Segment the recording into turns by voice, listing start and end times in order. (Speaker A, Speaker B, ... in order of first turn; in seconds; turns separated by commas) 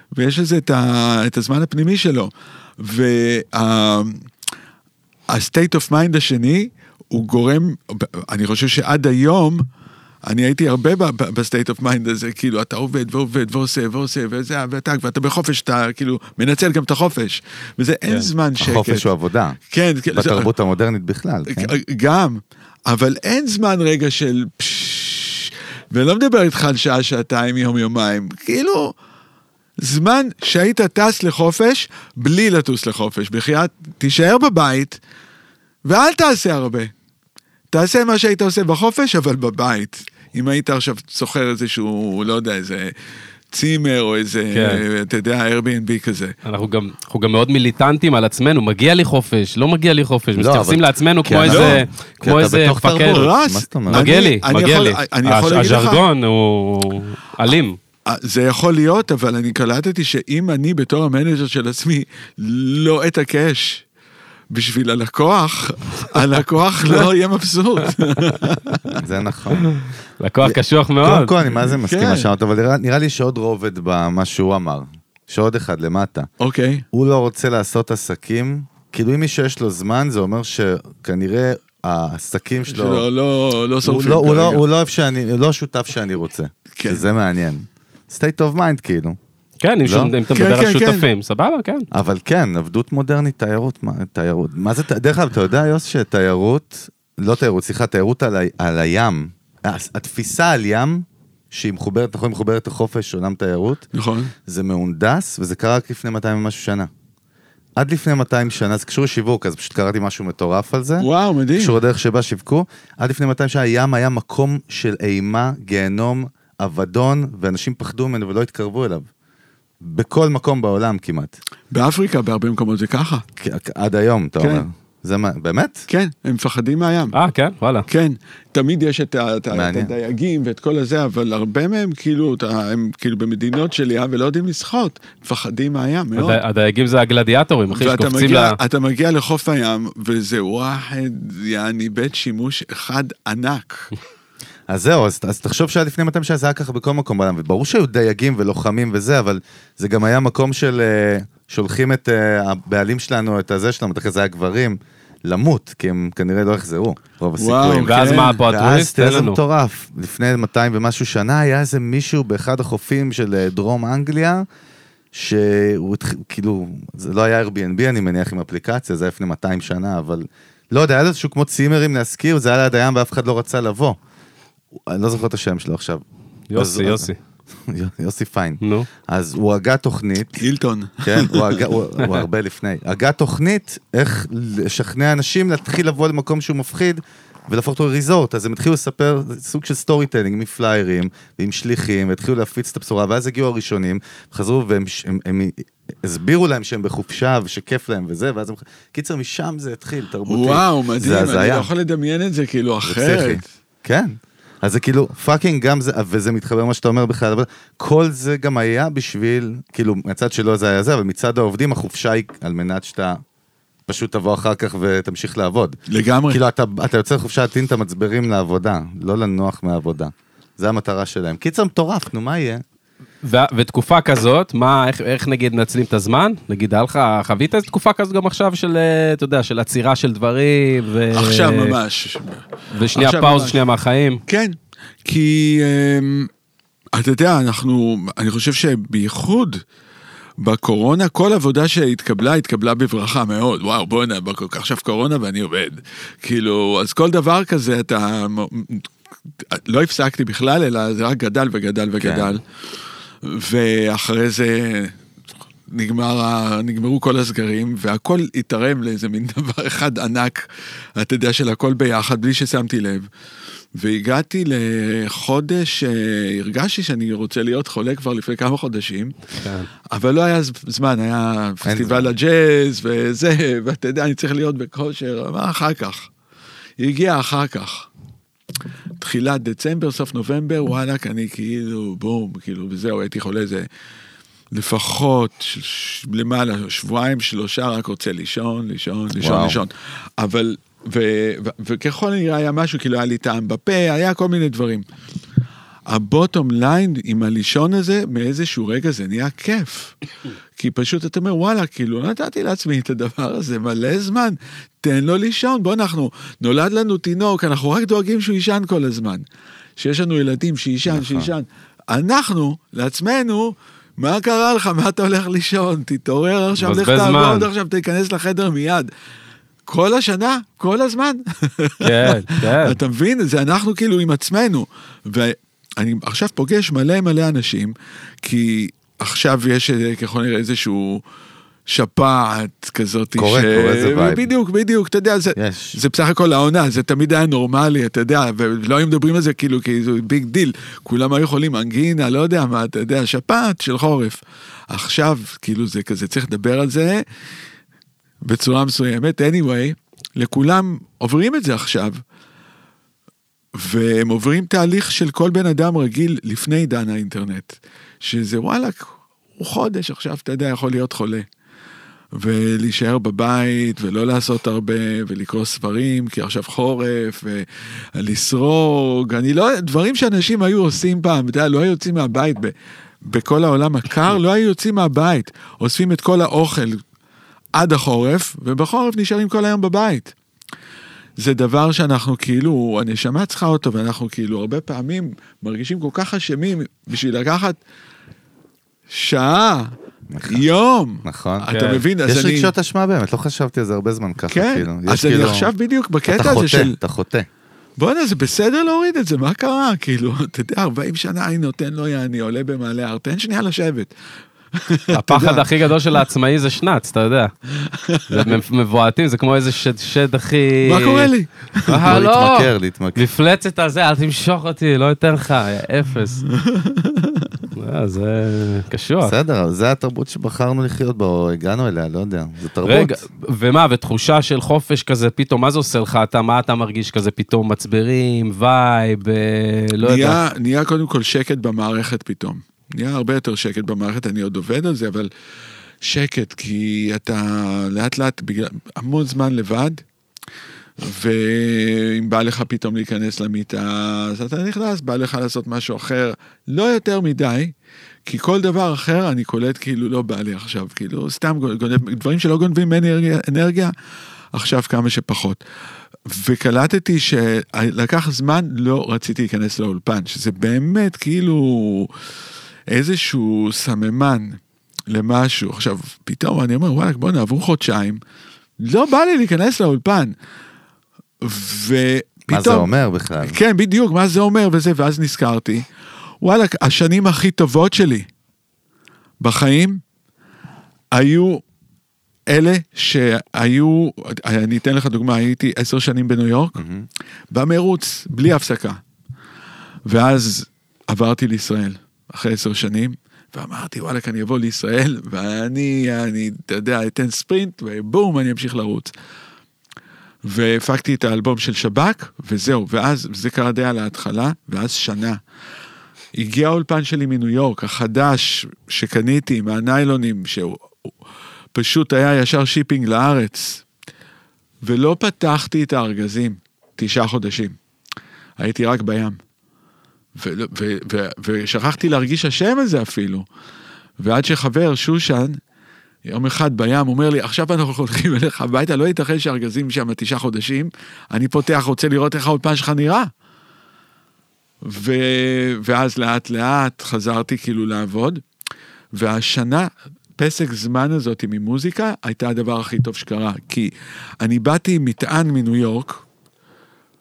Speaker A: 0.1-4.2, Speaker A: 5.3-9.6, Speaker A: 10.2-19.1, Speaker B: 18.6-19.6, Speaker A: 19.7-20.5, Speaker B: 20.1-21.7, Speaker A: 21.5-28.9, Speaker A: 29.8-35.0, Speaker A: 35.9-36.9, Speaker A: 37.7-42.9, Speaker A: 43.5-46.4, Speaker C: 44.5-44.8, Speaker C: 46.4-53.3, Speaker B: 50.4-54.1, Speaker A: 51.4-51.8, Speaker A: 53.1-56.0, Speaker C: 53.9-57.8, Speaker A: 58.0-63.8, Speaker A: 64.5-69.0, Speaker B: 69.0-69.7, Speaker C: 69.5-71.3, Speaker B: 70.4-76.3, Speaker A: 71.5-72.3, Speaker A: 76.4-76.8, Speaker B: 76.9-83.0, Speaker A: 82.7-84.6, Speaker B: 83.8-89.2, Speaker A: 86.8-87.0, Speaker C: 89.6-91.9, Speaker B: 89.8-90.1, Speaker A: 90.3-91.1, Speaker B: 91.9-103.8, Speaker A: 103.9-104.3, Speaker B: 104.5-106.9, Speaker B: 107.8-119.1, Speaker A: 111.0-111.8, Speaker B: 119.8-121.3, Speaker A: 121.7-123.2, Speaker B: 123.4-125.9, Speaker A: 124.4-124.6, Speaker A: 125.9-127.1, Speaker C: 127.1-127.9, Speaker A: 127.9-136.4, Speaker B: 129.5-129.9, Speaker C: 136.2-138.6, Speaker A: 137.7-143.9, Speaker B: 144.7-164.4, Speaker A: 157.4-158.4, Speaker C: 157.8-159.4, Speaker B: 165.1-174.0, Speaker B: 174.8-176.0, Speaker C: 176.5-177.2, Speaker B: 176.5-177.1, Speaker B: 177.7-180.4, Speaker C: 178.6-178.9, Speaker A: 180.4-181.7, Speaker B: 181.0-201.7, Speaker A: 200.3-203.4, Speaker B: 202.8-213.2, Speaker B: 213.9-215.8, Speaker A: 215.9-216.4, Speaker B: 216.3-222.6, Speaker C: 223.2-231.8, Speaker A: 231.1-233.6, Speaker C: 232.7-234.2, Speaker A: 234.3-236.3, Speaker A: 236.9-239.6, Speaker A: 240.4-248.9, Speaker A: 249.5-252.4, Speaker B: 252.0-252.4, Speaker A: 253.2-254.9, Speaker A: 255.7-260.4, Speaker A: 260.9-263.1, Speaker A: 263.7-269.1, Speaker C: 269.4-269.7, Speaker A: 269.9-276.1, Speaker B: 271.6-272.1, Speaker A: 276.8-277.9, Speaker A: 279.0-283.7, Speaker A: 284.5-294.8, Speaker B: 289.1-289.6, Speaker A: 295.9-299.9, Speaker A: 300.6-309.2, Speaker A: 309.8-318.9, Speaker B: 310.9-311.3, Speaker C: 316.6-317.5, Speaker A: 319.7-331.0, Speaker C: 321.8-322.8, Speaker A: 331.7-344.2, Speaker B: 333.2-334.3, Speaker B: 335.3-335.8, Speaker A: 344.7-347.0, Speaker A: 348.2-352.0, Speaker A: 353.5-361.2, Speaker A: 362.1-372.5, Speaker A: 373.1-376.8, Speaker A: 377.6-380.1, Speaker A: 381.2-387.6, Speaker A: 388.9-389.7, Speaker B: 390.1-390.4, Speaker A: 390.2-392.5, Speaker B: 391.0-391.5, Speaker C: 391.5-391.8, Speaker B: 392.1-395.5, Speaker A: 394.3-396.8, Speaker B: 396.1-397.3, Speaker A: 397.8-403.9, Speaker A: 404.5-405.4, Speaker C: 404.9-407.3, Speaker A: 407.7-408.4, Speaker C: 408.1-411.1, Speaker A: 410.6-411.9, Speaker C: 411.7-416.2, Speaker B: 411.8-413.0, Speaker A: 416.4-417.3, Speaker C: 417.5-419.1, Speaker B: 419.0-423.0, Speaker C: 422.6-430.2, Speaker A: 429.8-435.1, Speaker A: 435.8-439.8, Speaker A: 440.8-447.5, Speaker A: 448.1-453.7, Speaker A: 454.3-455.4, Speaker A: 456.1-461.9, Speaker A: 462.7-464.4, Speaker A: 464.9-468.0, Speaker A: 468.6-470.1, Speaker A: 471.2-475.6, Speaker B: 472.3-473.4, Speaker A: 476.2-478.1, Speaker A: 479.2-479.8, Speaker A: 480.9-481.4, Speaker A: 482.3-486.6, Speaker B: 486.6-486.9, Speaker A: 487.3-488.8, Speaker A: 489.9-498.9, Speaker A: 500.2-505.2, Speaker A: 506.1-510.7, Speaker A: 511.5-513.6, Speaker A: 514.6-517.5, Speaker A: 518.4-519.2, Speaker A: 520.1-523.2, Speaker A: 524.0-525.4, Speaker A: 526.0-533.1, Speaker A: 534.6-538.2, Speaker A: 538.9-546.0